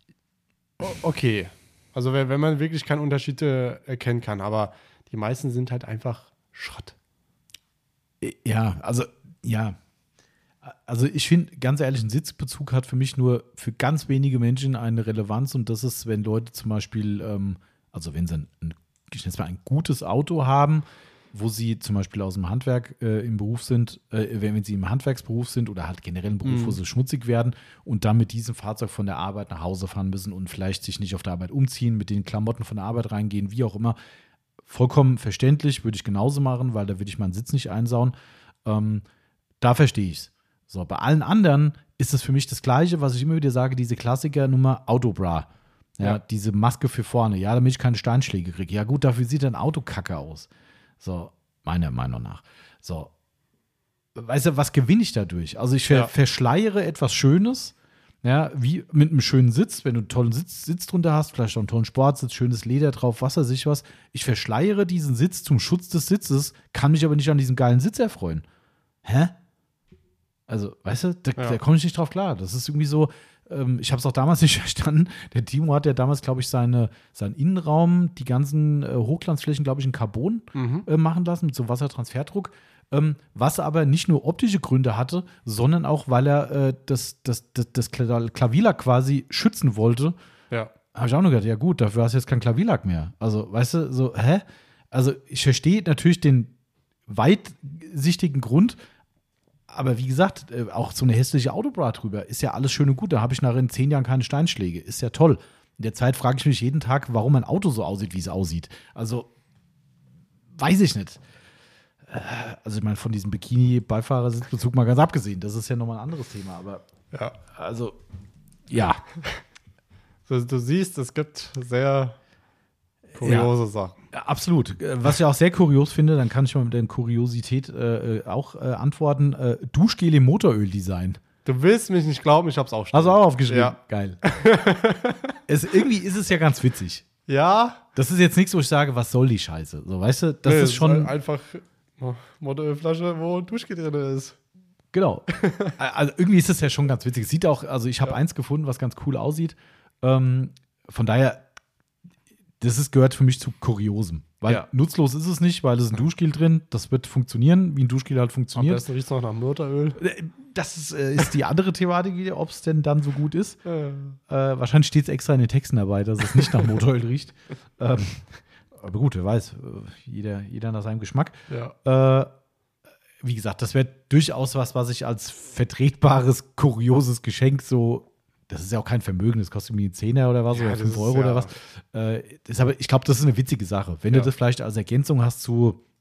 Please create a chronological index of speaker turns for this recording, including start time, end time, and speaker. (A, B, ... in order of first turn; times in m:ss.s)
0:00.8-0:07.0 A
0:08.2-0:09.8 B
0:10.6-0:34.0 B
0:26.4-0:26.8 A
0:34.7-0:39.0 B
0:39.6-0:50.5 B
0:51.0-0:53.1 B
0:54.2-1:08.4 B
1:09.0-1:09.3 B
1:10.5-1:30.2 B
1:20.6-1:20.9 A
1:30.9-1:36.5 B
1:37.1-1:38.8 B
1:39.7-1:49.3 B
1:50.6-1:51.2 B
1:52.1-1:56.8 B
1:57.4-1:58.0 B
1:58.7-1:59.1 B
2:00.3-2:02.2 A
2:03.2-2:03.5 B
2:03.2-2:04.0 A
2:04.1-2:11.2 B
2:11.4-2:15.4 A
2:12.9-2:14.2 B
2:15.5-2:17.1 B
2:17.3-2:17.8 A
2:18.0-2:21.1 B
2:20.4-2:24.4 A
2:24.9-2:31.4 B
2:25.3-2:25.7 A
2:32.6-2:38.8 B
2:38.5-2:40.0 A
2:40.0-2:43.6 B
2:43.6-2:44.2 A
2:44.3-2:52.3 B
2:51.5-2:51.8 A
2:53.2-3:05.8 B
3:00.5-3:01.5 A